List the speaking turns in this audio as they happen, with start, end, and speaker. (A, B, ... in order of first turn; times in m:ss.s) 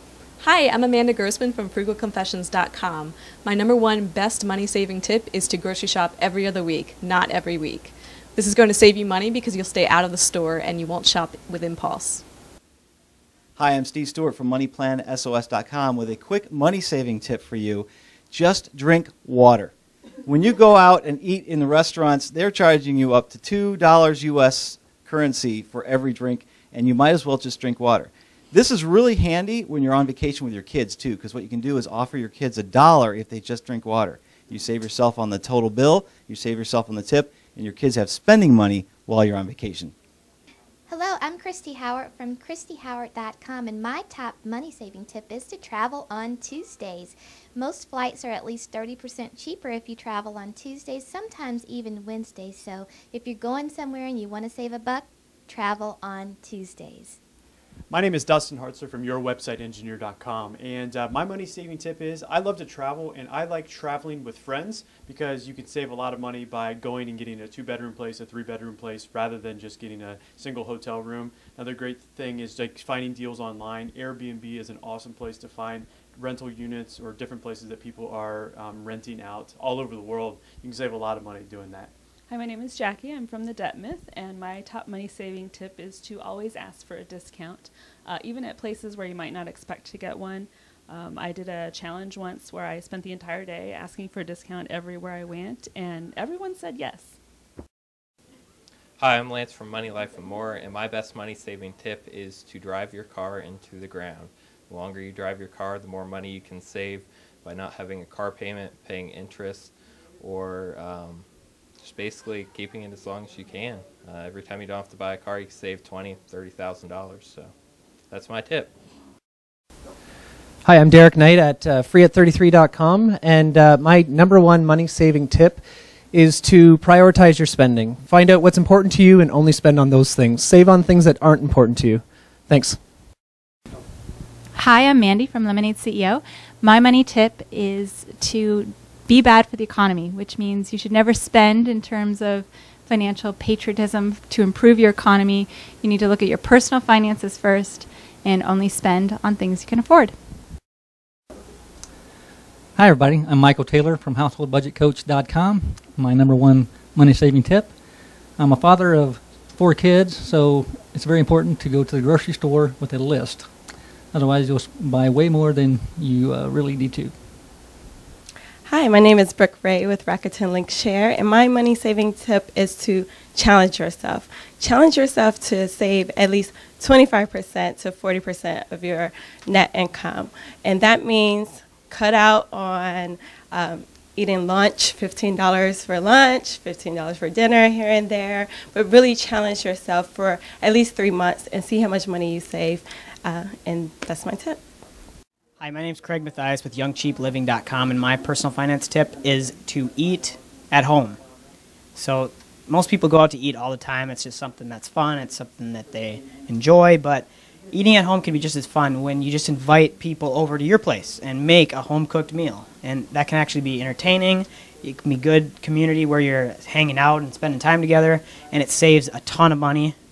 0:00.4-0:12.2 A
0:13.6-0:19.7 B
0:20.2-0:39.9 B
0:40.9-0:57.2 C
0:57.9-1:21.9 D
1:22.3-1:37.2 E
1:39.0-1:51.3 F
1:51.8-1:57.5 F
1:58.1-1:58.7 F
2:00.6-2:12.8 G
2:14.5-2:30.2 H
2:32.8-2:47.2 I
2:48.6-3:14.6 J
3:15.6-3:21.2 K
3:22.0-3:40.0 K